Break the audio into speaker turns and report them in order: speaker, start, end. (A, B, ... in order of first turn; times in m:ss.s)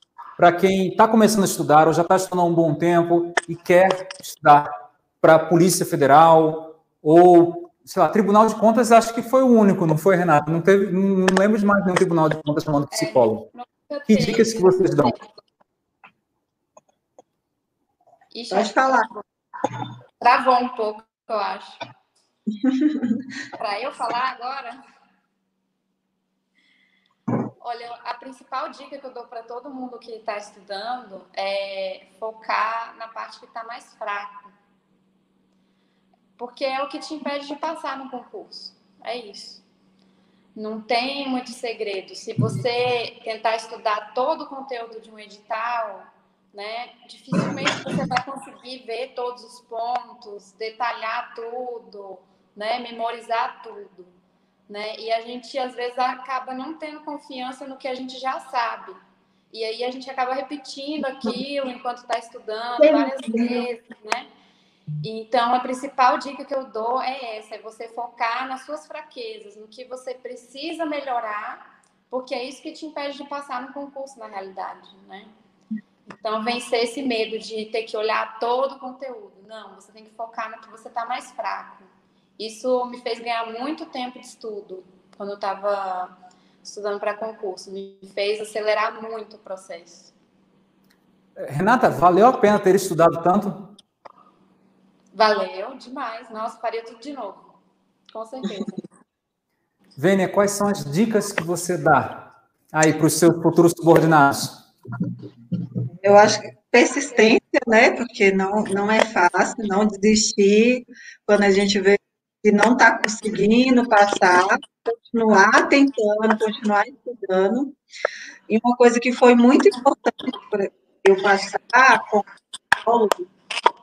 0:00.4-0:04.7 A
0:05.2-0:13.5 A
0:12.9-0:15.2 B
0:14.1-0:15.2 A
0:18.3-0:19.2 B
0:18.5-0:19.1 C
0:20.2-0:21.8 B
0:22.6-0:23.2 C
0:23.6-0:24.8 B
0:27.6-0:34.5 B
0:36.4-0:39.6 B
0:40.6-0:54.1 B
0:54.7-0:59.0 B
0:59.5-1:04.3 B
1:02.8-1:03.6 C
1:05.0-1:15.3 B
1:16.1-1:30.1 B
1:31.4-1:33.8 A
1:35.1-1:37.5 B
1:38.1-1:38.8 B
1:40.0-1:44.6 A
1:46.0-1:57.8 C
1:58.5-2:02.3 C
2:02.8-2:03.3 C